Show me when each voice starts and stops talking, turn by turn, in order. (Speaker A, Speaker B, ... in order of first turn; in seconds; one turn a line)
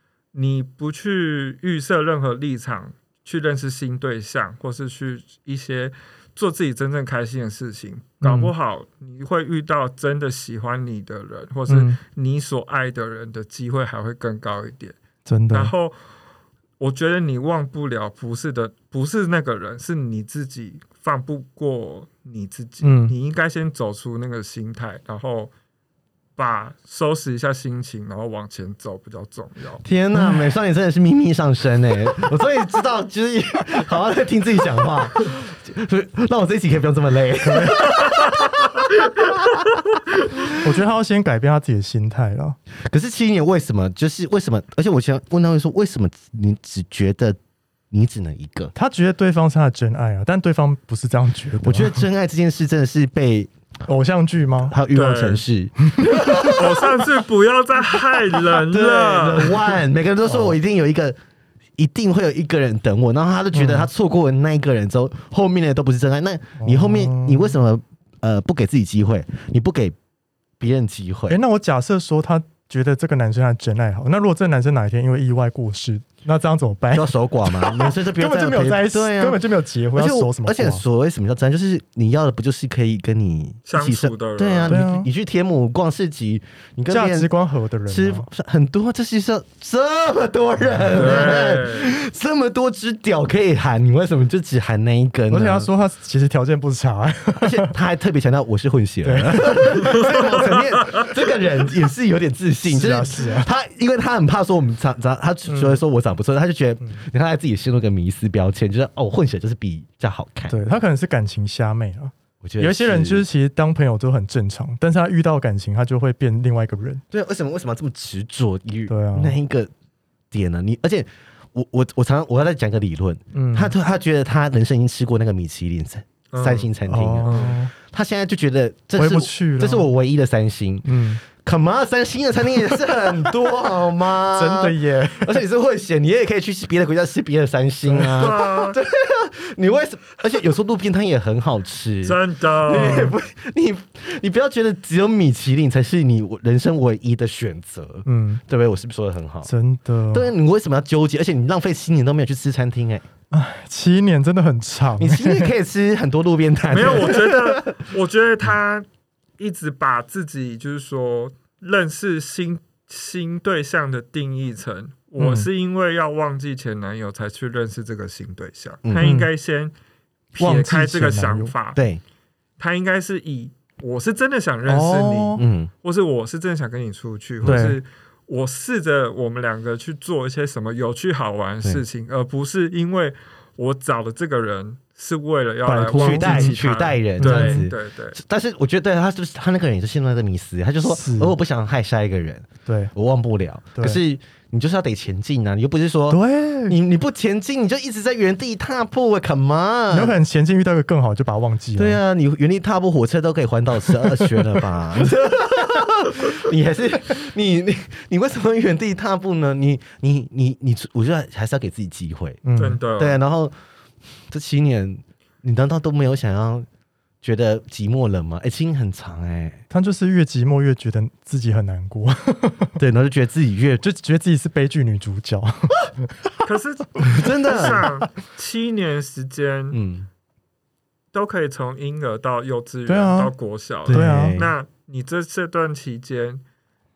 Speaker A: 0.3-15.0
Speaker B: 8.2-8.5
Speaker B: 11.7-12.0
Speaker B: 15.3-15.7
Speaker A: 15.5-16.0
Speaker A: 16.8-25.5
Speaker B: 22.8-23.1
Speaker A: 26.4-29.8
Speaker C: 29.8-39.4
Speaker B: 30.1-30.5
Speaker B: 37.5-37.8
Speaker A: 38.0-38.7
Speaker B: 40.5-42.6
Speaker C: 42.8-47.4
Speaker C: 47.9-48.7
Speaker B: 48.8-52.1
Speaker C: 51.6-53.5
Speaker B: 53.9-54.8
Speaker C: 54.6-56.9
Speaker A: 55.0-55.4
Speaker A: 56.5-59.8
Speaker C: 58.6-61.2
Speaker B: 60.3-60.5
Speaker C: 61.8-70.0
Speaker B: 63.5-63.9
Speaker B: 66.6-67.6
Speaker C: 70.6-71.4
Speaker B: 71.3-80.8
Speaker C: 76.9-79.4
Speaker C: 80.0-87.3
Speaker A: 83.7-84.8
Speaker B: 84.7-85.1
Speaker B: 86.9-88.3
Speaker C: 87.9-95.7
Speaker B: 90.7-91.1
Speaker A: 90.9-92.0
Speaker B: 95.3-97.7
Speaker C: 97.4-110.6
Speaker B: 99.0-100.6
Speaker B: 102.6-103.5
Speaker B: 105.5-105.8
Speaker B: 110.5-117.0
Speaker C: 112.4-113.2
Speaker C: 117.1-119.7
Speaker B: 118.9-119.4
Speaker C: 120.3-149.5
Speaker B: 123.3-123.7
Speaker A: 126.3-126.7
Speaker B: 126.9-127.7
Speaker A: 127.2-127.5
Speaker B: 129.0-129.9
Speaker B: 130.8-131.2
Speaker B: 134.3-135.4
Speaker A: 138.0-138.8
Speaker A: 142.0-143.2
Speaker B: 148.1-148.4
Speaker B: 149.4-150.3
Speaker C: 150.1-153.1
Speaker B: 153.3-155.5
Speaker C: 155.0-157.8
Speaker A: 156.7-158.9
Speaker A: 159.4-169.7
Speaker B: 165.2-165.5
Speaker B: 169.0-169.3
Speaker A: 170.3-171.8
Speaker B: 170.4-171.6
Speaker C: 171.8-172.0
Speaker A: 172.6-188.2
Speaker B: 174.7-175.4
Speaker C: 175.4-175.7
Speaker C: 177.4-177.7
Speaker B: 177.5-177.8
Speaker B: 185.7-186.6
Speaker C: 185.9-200.2
Speaker B: 187.2-187.7
Speaker B: 190.8-191.3
Speaker B: 192.7-192.9
Speaker B: 196.1-196.8
Speaker B: 199.9-202.0
Speaker C: 201.8-212.4
Speaker B: 212.4-212.8
Speaker A: 212.6-213.2
Speaker C: 213.0-213.5
Speaker C: 214.3-216.7
Speaker C: 217.2-219.6
Speaker B: 219.7-222.7
Speaker C: 222.8-223.8
Speaker B: 223.8-226.1
Speaker A: 226.4-229.8
Speaker C: 227.0-227.8
Speaker C: 229.7-230.1
Speaker A: 231.1-236.4
Speaker B: 232.9-233.3
Speaker C: 233.8-234.5
Speaker B: 233.9-234.5